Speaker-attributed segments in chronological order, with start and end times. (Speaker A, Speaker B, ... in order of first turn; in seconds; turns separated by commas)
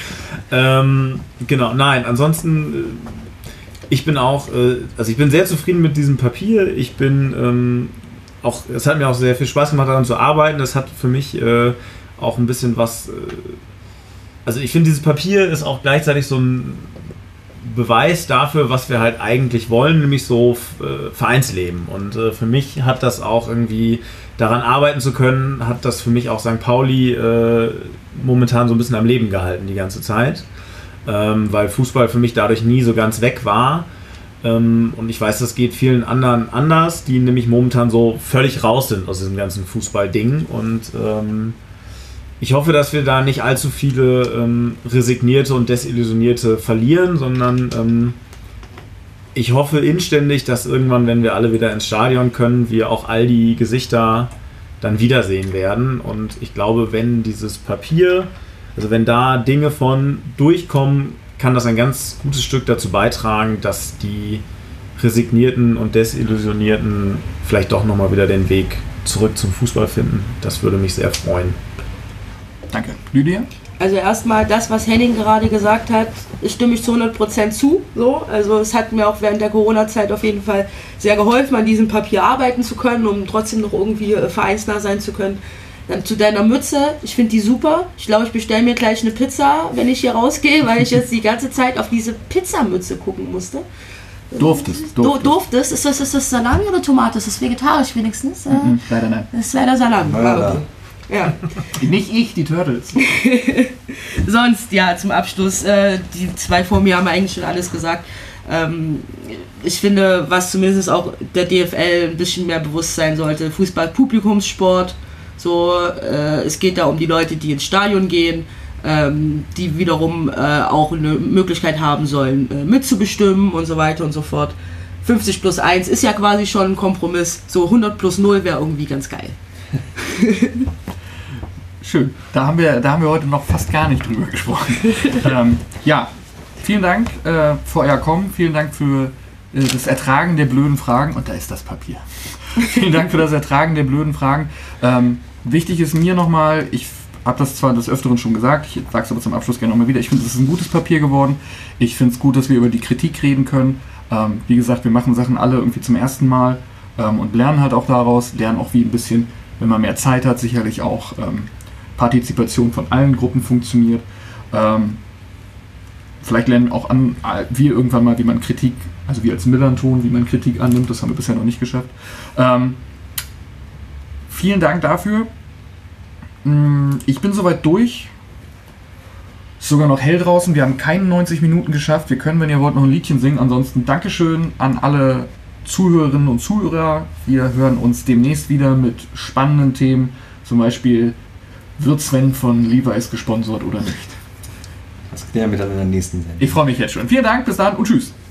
Speaker A: 0.5-3.2, Speaker A: 3.9-13.6, Speaker A: 14.4-17.0, Speaker A: 17.6-30.4, Speaker A: 31.1-33.9, Speaker A: 34.4-41.6, Speaker A: 42.4-48.1, Speaker A: 49.3-64.4, Speaker A: 65.0-71.6, Speaker B: 72.7-73.5, Speaker C: 73.8-93.6, Speaker C: 94.3-101.4, Speaker B: 94.4-95.3, Speaker B: 98.5-99.3, Speaker D: 100.0-100.6, Speaker B: 101.7-103.0, Speaker C: 103.0-129.3, Speaker C: 130.0-130.7, Speaker B: 131.8-165.0, Speaker B: 166.2-172.8, Speaker B: 174.3-175.3, Speaker B: 176.4-178.1, Speaker B: 179.6-191.2, Speaker B: 191.8-194.2, Speaker D: 195.1-196.6, Speaker B: 196.4-198.1